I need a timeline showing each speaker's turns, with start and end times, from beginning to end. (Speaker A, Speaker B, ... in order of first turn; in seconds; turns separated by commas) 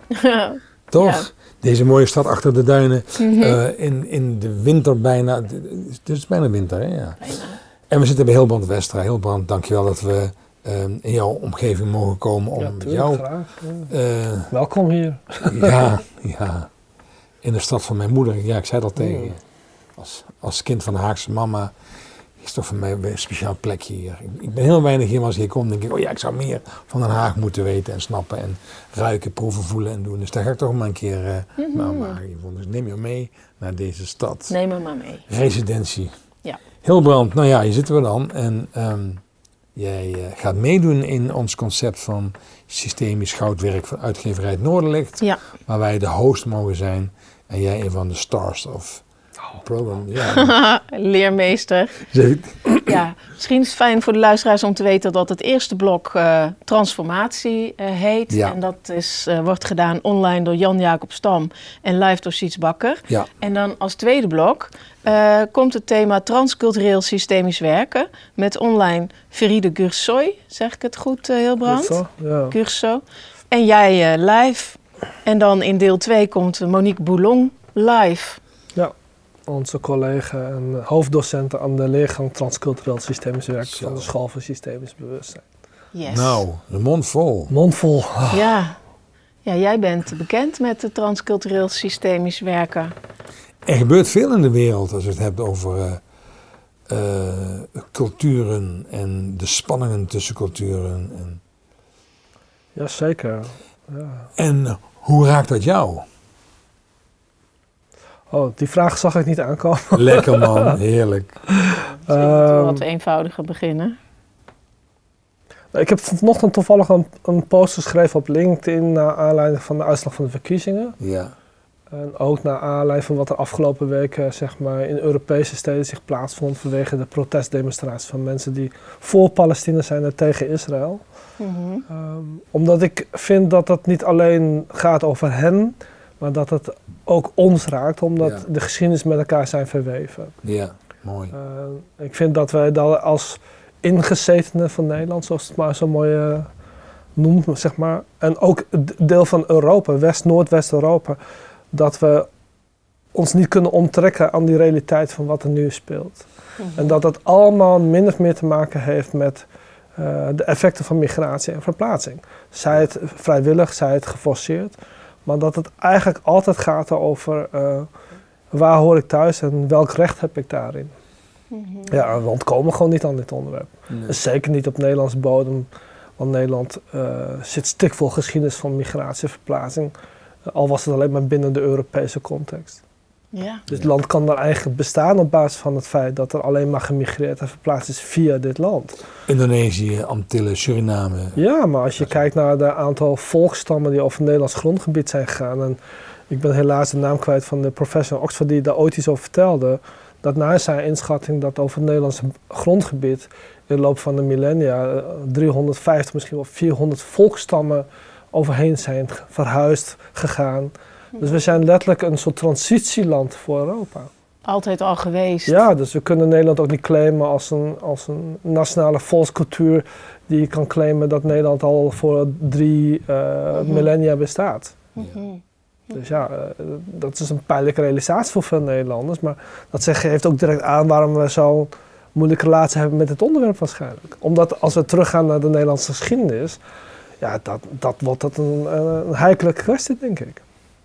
Speaker A: 0.1-1.3, Speaker B: 0.9-7.4, Speaker A: 3.2-3.6, Speaker A: 7.2-7.6, Speaker B: 7.9-13.2, Speaker C: 12.6-13.9, Speaker B: 13.9-14.5, Speaker C: 14.5-15.8, Speaker B: 15.5-16.7, Speaker B: 17.4-19.4, Speaker C: 19.0-19.3, Speaker B: 20.0-21.7, Speaker B: 22.4-34.5, Speaker A: 31.6-32.2, Speaker A: 34.5-35.2, Speaker B: 35.3-36.1, Speaker B: 36.8-39.2, Speaker B: 39.8-49.0, Speaker B: 49.6-50.5, Speaker A: 50.3-52.0, Speaker B: 52.1-52.8, Speaker A: 52.8-78.4, Speaker B: 58.3-58.6, Speaker C: 71.7-72.5, Speaker C: 79.5-85.5, Speaker B: 83.7-84.1, Speaker A: 85.9-86.4, Speaker B: 86.1-87.5, Speaker C: 87.5-88.5, Speaker A: 88.3-88.8, Speaker A: 89.5-92.9, Speaker B: 93.7-96.0, Speaker B: 96.9-101.4, Speaker C: 102.8-104.3, Speaker B: 104.4-106.1, Speaker C: 108.3-110.8, Speaker B: 109.9-111.4, Speaker C: 111.5-112.8, Speaker A: 111.8-114.0, Speaker C: 115.7-121.0, Speaker B: 121.0-121.3, Speaker C: 121.9-131.0, Speaker A: 131.4-131.8, Speaker C: 131.9-140.3, Speaker B: 140.4-141.3, Speaker C: 141.3-146.5, Speaker C: 147.2-151.2, Speaker C: 151.7-152.3, Speaker C: 153.1-159.5, Speaker A: 156.6-157.0, Speaker C: 160.0-164.8, Speaker C: 165.3-167.9, Speaker C: 168.5-170.9, Speaker A: 171.5-172.0, Speaker C: 171.9-179.9, Speaker B: 173.9-174.2, Speaker C: 180.5-182.8, Speaker A: 183.3-183.6, Speaker C: 183.7-189.0, Speaker B: 189.3-191.4, Speaker C: 191.4-195.8, Speaker C: 196.3-214.1, Speaker A: 211.2-211.4, Speaker A: 214.4-215.6, Speaker C: 215.5-224.8, Speaker A: 223.6-223.9, Speaker A: 224.9-226.0, Speaker C: 225.9-236.6, Speaker C: 237.2-240.4